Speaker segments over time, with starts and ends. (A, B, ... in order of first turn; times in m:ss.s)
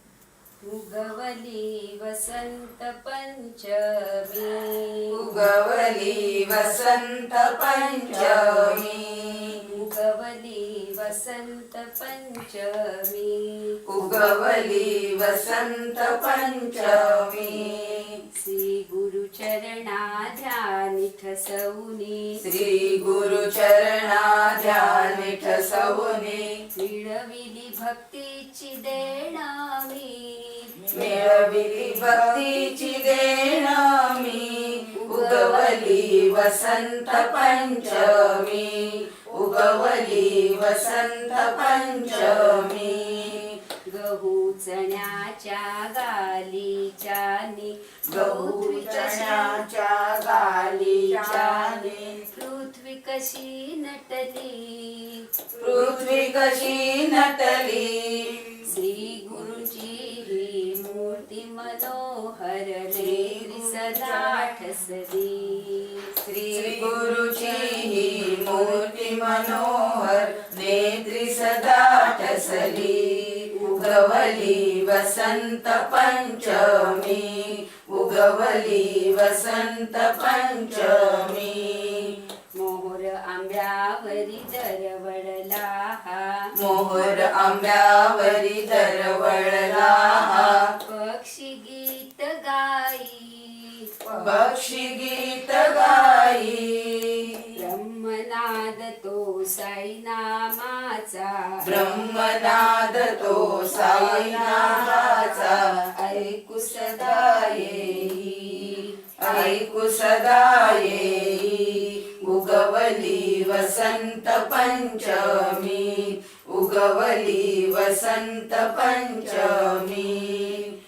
0:00.6-0:05.4 A
0:05.1-0:09.7 B
0:09.6-0:14.3 A
0:13.9-0:18.2 B
0:18.4-0:22.4 A
0:22.4-0:26.5 B
0:26.8-0:30.9 A
0:30.9-0:43.6 B
0:35.0-0:36.1 A
0:43.9-0:49.6 A
0:48.1-0:52.3 B
0:50.8-0:55.3 A
0:55.6-0:58.6 B
0:58.7-1:06.9 A
1:03.0-1:03.9 B
1:06.2-1:22.2 B
1:13.5-1:14.5 A
1:22.6-1:26.5 A
1:26.6-1:30.7 B
1:30.7-1:34.1 A
1:34.1-1:37.5 B
1:37.6-1:41.8 A
1:41.6-1:45.7 B
1:43.8-1:44.9 A
1:46.0-1:49.6 A
1:46.8-2:00.7 B